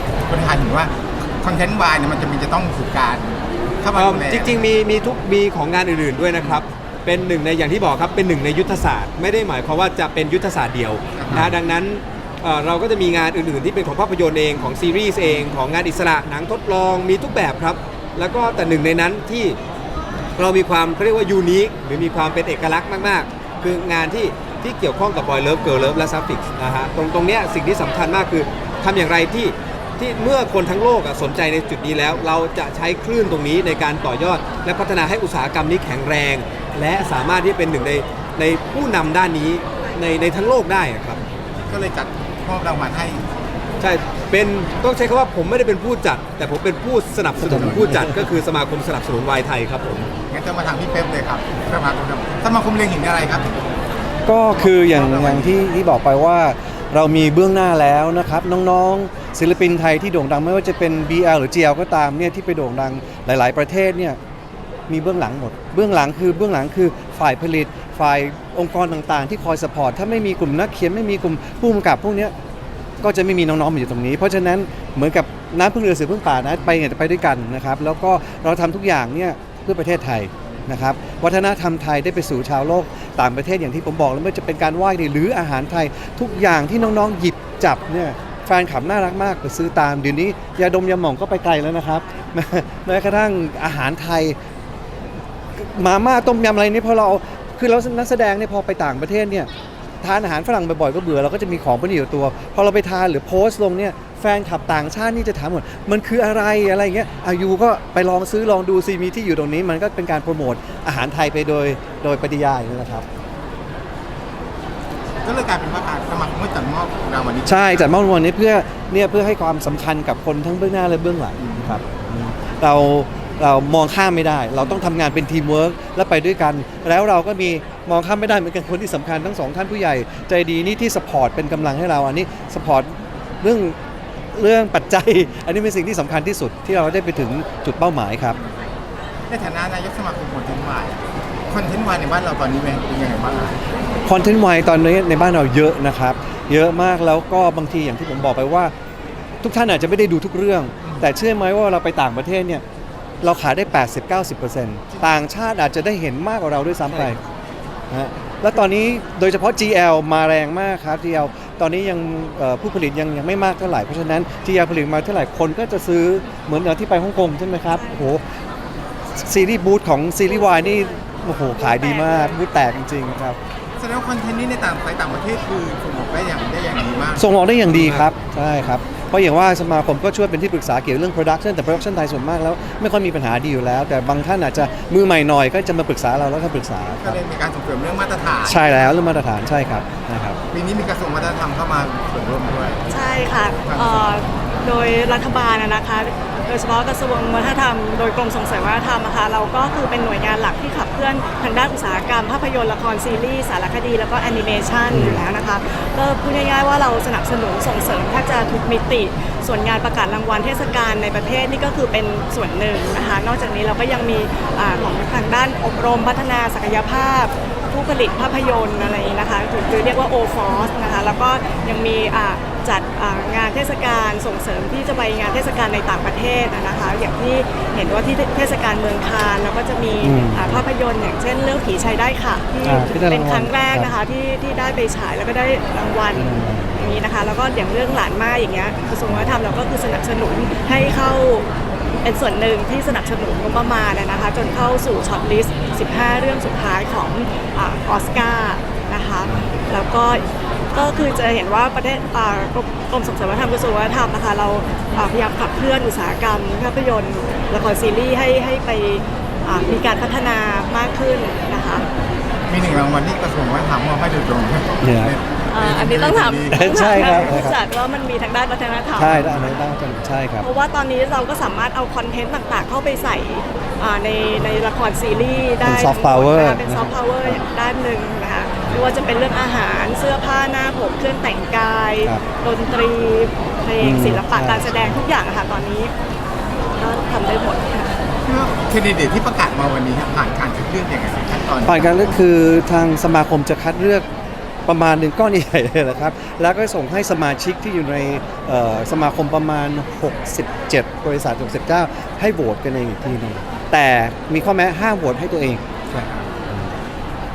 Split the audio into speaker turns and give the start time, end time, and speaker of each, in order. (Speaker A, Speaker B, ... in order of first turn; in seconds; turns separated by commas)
Speaker A: 0.2-4.7, Speaker B: 3.9-19.6, Speaker A: 11.2-11.5, Speaker B: 20.4-41.2, Speaker A: 41.7-43.2, Speaker B: 43.8-50.1, Speaker C: 47.4-48.2, Speaker A: 50.3-53.5, Speaker C: 54.2-64.2, Speaker A: 54.5-55.6, Speaker C: 64.9-72.3, Speaker C: 73.0-94.3, Speaker D: 91.9-92.3, Speaker C: 95.6-99.5, Speaker C: 100.0-113.0, Speaker A: 115.2-117.8, Speaker C: 117.4-133.8, Speaker A: 121.4-121.8, Speaker C: 134.3-138.4, Speaker A: 139.3-143.6, Speaker C: 144.0-148.7, Speaker C: 149.4-152.6, Speaker C: 153.2-157.2, Speaker C: 157.9-168.2, Speaker D: 167.7-168.1, Speaker C: 169.2-173.4, Speaker D: 170.4-172.4, Speaker A: 173.8-177.3, Speaker C: 177.2-187.2, Speaker B: 177.7-178.1, Speaker A: 187.0-188.6, Speaker C: 188.4-190.4, Speaker A: 190.5-192.8, Speaker D: 192.9-241.5, Speaker A: 193.6-194.0, Speaker C: 204.9-205.2, Speaker C: 230.0-230.6, Speaker C: 232.6-233.9, Speaker C: 236.1-237.0, Speaker D: 242.0-261.9, Speaker A: 262.5-267.4, Speaker C: 264.8-265.1, Speaker D: 265.5-269.2, Speaker C: 266.5-267.6, Speaker C: 268.9-270.4, Speaker A: 269.1-269.4, Speaker D: 270.4-285.9, Speaker C: 275.6-277.4, Speaker C: 283.8-285.0, Speaker D: 286.7-287.9, Speaker A: 288.2-292.2, Speaker C: 291.6-294.0, Speaker C: 294.6-305.9, Speaker A: 305.9-306.2